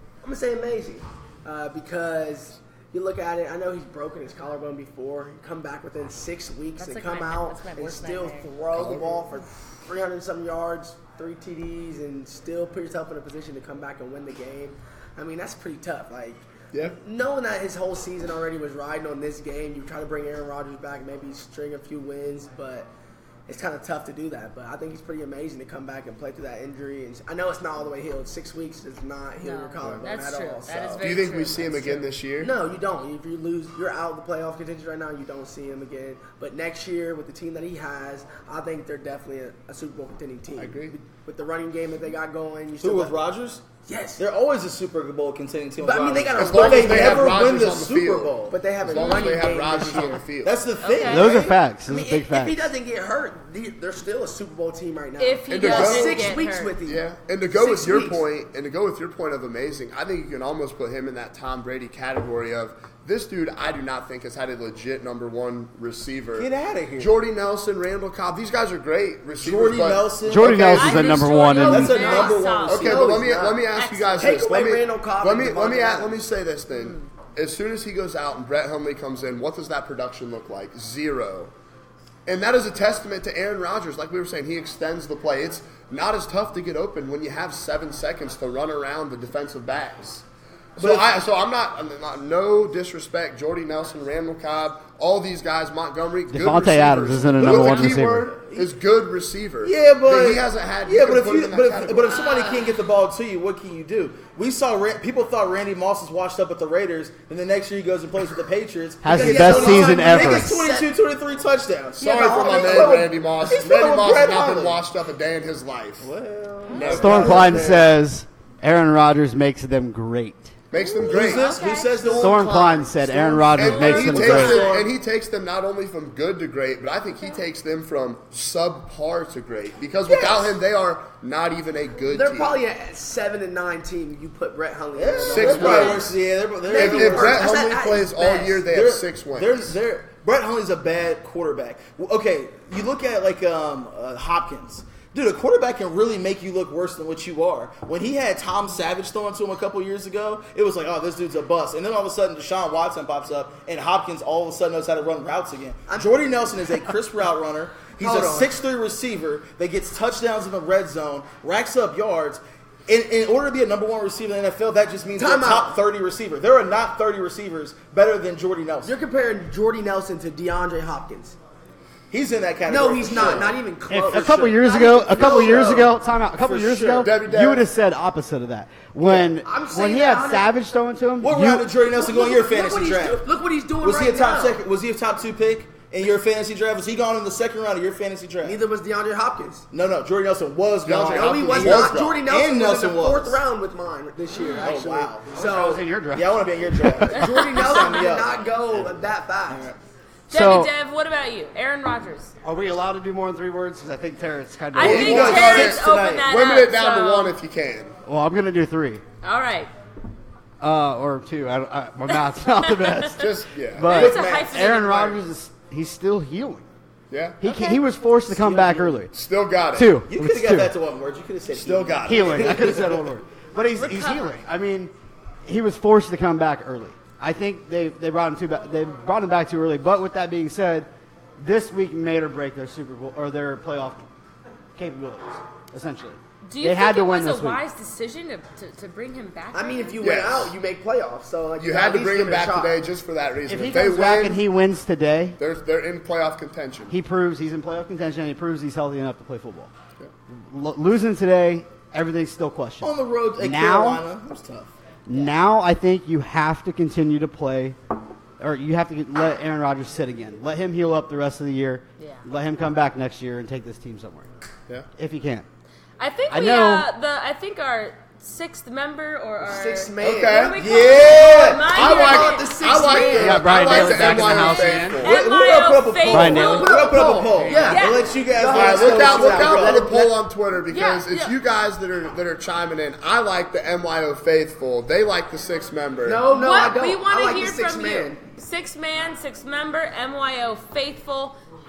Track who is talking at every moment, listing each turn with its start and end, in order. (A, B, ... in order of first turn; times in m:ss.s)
0:00.2-0:16.4 A
0:06.8-0:08.5 B
0:08.7-0:09.2 C
0:17.0-0:22.9 A
0:23.5-0:31.0 A
0:29.4-0:32.1 B
0:29.8-0:30.1 C
0:31.0-0:32.6 C
0:32.4-0:43.2 A
0:40.6-0:41.0 C
0:42.8-0:43.7 D
0:43.8-0:44.2 A
0:44.2-0:48.7 D
0:45.8-0:47.4 A
0:46.4-0:50.7 C
0:48.5-0:50.3 A
0:49.0-0:49.4 B
0:50.4-0:51.6 D
0:50.8-0:51.3 B
0:51.1-0:52.7 E
0:51.3-0:58.2 A
0:55.2-0:56.8 B
0:55.5-1:11.2 C
1:06.4-1:07.2 D
1:09.4-1:13.1 D
1:10.2-1:12.0 E
1:10.8-1:13.1 B
1:11.5-1:13.7 A
1:12.7-1:21.5 C
1:13.8-1:14.4 B
1:14.2-1:16.2 A
1:16.7-1:17.1 B
1:22.3-1:30.2 C
1:30.8-1:42.3 C
1:30.8-1:31.1 D
1:36.3-1:38.3 E
1:37.4-1:38.7 D
1:39.6-1:54.8 D
1:42.2-1:42.6 B
1:49.0-1:50.6 E
1:49.1-1:50.9 A
1:52.0-1:56.1 C
1:52.0-1:53.2 A
1:56.0-1:58.0 D
1:56.7-1:57.0 B
1:56.7-1:57.8 C
1:57.0-2:00.6 E
2:00.7-2:02.5 C
2:00.8-2:02.1 B
2:01.0-2:04.9 D
2:02.0-2:02.5 A
2:02.1-2:04.7 E
2:03.5-2:12.6 C
2:10.1-2:10.5 D
2:12.1-2:16.2 A
2:15.0-2:17.6 D
2:15.3-2:16.2 C
2:16.7-2:18.6 A
2:16.7-2:19.8 C
2:18.7-2:48.9 D
2:35.9-2:36.3 A
2:38.0-2:38.5 A
2:45.2-2:45.8 A
2:48.8-2:51.4 A
2:52.1-2:57.2 D
2:52.7-2:55.9 A
2:53.9-3:01.7 E
2:57.0-2:57.7 C
2:59.0-2:59.3 D
2:59.4-3:00.5 A
3:01.2-3:03.2 D
3:01.9-3:04.6 A
3:03.8-3:08.6 D
3:08.4-3:09.7 A
3:09.7-3:13.4 D
3:10.8-3:12.2 C
3:11.1-3:15.9 A
3:14.3-3:14.7 B
3:14.6-3:15.4 D
3:15.4-3:17.2 E
3:16.1-3:18.9 D
3:17.1-3:19.7 A
3:19.5-3:19.8 D
3:20.3-3:22.3 B
3:20.3-3:20.7 E
3:22.4-3:25.5 E
3:24.7-3:27.4 B
3:24.8-3:26.3 D
3:24.8-3:27.9 C
3:28.1-3:29.0 E
3:29.2-3:29.7 B
3:30.6-3:36.7 E
3:32.2-3:33.1 B
3:33.1-3:34.2 C
3:33.9-3:34.6 D
3:33.9-3:35.2 B
3:37.1-3:37.4 C
3:37.4-3:39.1 E
3:37.5-3:37.8 B
3:38.3-3:39.0 D
3:39.1-3:40.0 C
3:39.8-3:40.7 E
3:40.0-3:43.0 D
3:41.5-3:42.8 C
3:42.0-3:44.9 E
3:43.7-3:44.4 B
3:45.4-3:50.9 E
3:51.4-3:54.0 E
3:54.8-3:57.6 E
3:56.4-4:00.0 B
3:59.5-4:02.8 A
4:00.0-4:00.6 C
4:01.6-4:04.4 C
4:03.5-4:05.4 E
4:05.4-4:07.0 C
4:06.9-4:09.7 E
4:10.3-4:14.0 E
4:12.8-4:14.7 D
4:15.1-4:17.8 E
4:18.4-4:24.3 E
4:22.0-4:22.2 B
4:25.0-4:25.5 E
4:26.0-4:33.1 B
4:26.3-4:26.9 E
4:29.4-4:30.5 A
4:30.0-4:30.6 C
4:30.6-4:31.8 D
4:31.6-4:35.2 C
4:31.7-4:34.3 A
4:33.1-4:35.0 E
4:35.0-4:39.9 D
4:35.0-4:36.7 B
4:36.1-4:36.7 E
4:36.4-4:40.1 A
4:37.4-4:37.7 E
4:37.6-4:38.1 B
4:38.5-4:46.3 C
4:40.7-4:41.4 B
4:46.0-4:48.2 A
4:46.3-4:51.4 B